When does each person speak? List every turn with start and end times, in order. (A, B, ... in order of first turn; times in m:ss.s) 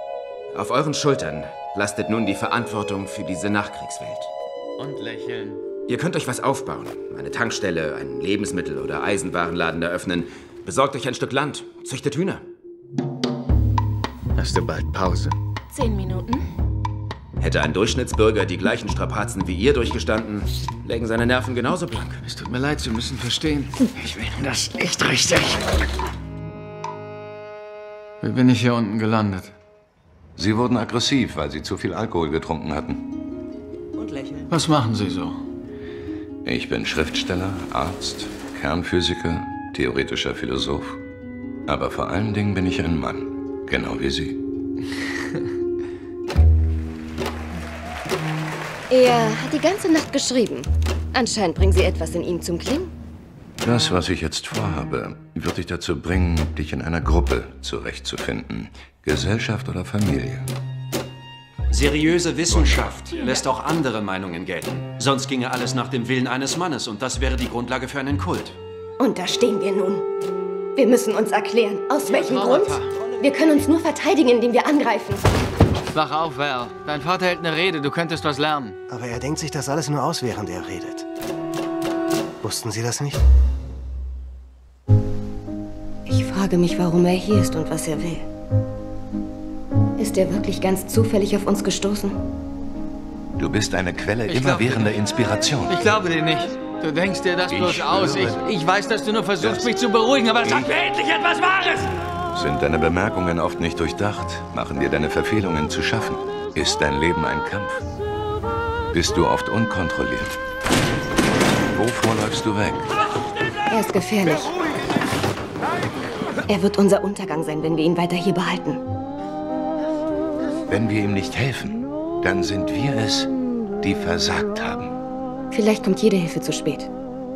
0:00.5-0:04.3 A
0:04.8-0:05.6 B
0:05.9-0:12.4 A
0:14.4-0:15.4 B
0:15.8-0:16.4 C
0:17.4-0:22.2 A
0:22.2-0:25.7 B
0:28.2-0:29.5 B
0:30.4-0:33.1 D
0:34.0-0:34.5 C
0:34.5-0:35.4 B
0:36.4-0:41.0 D
0:41.7-0:44.4 D
0:48.9-0:52.9 C
0:53.6-1:00.5 D
1:01.7-1:08.6 E
1:09.0-1:10.0 C
1:10.8-1:15.3 C
1:12.1-1:12.9 B
1:15.9-1:18.8 B
1:18.9-1:21.1 F
1:22.4-1:23.2 F
1:26.1-1:28.3 C
1:30.0-1:32.2 C
1:33.4-1:35.8 D
1:34.3-1:34.9 B
1:35.7-1:41.9 B
1:37.5-1:38.4 D
1:39.4-1:39.7 D
1:40.4-1:40.8 D
1:42.3-1:47.8 D
1:48.9-1:50.4 D
1:51.7-1:52.9 D
1:53.7-1:54.6 C
1:56.5-1:58.8 C
2:00.7-2:03.3 D
2:03.8-2:04.9 D
2:05.5-2:06.9 C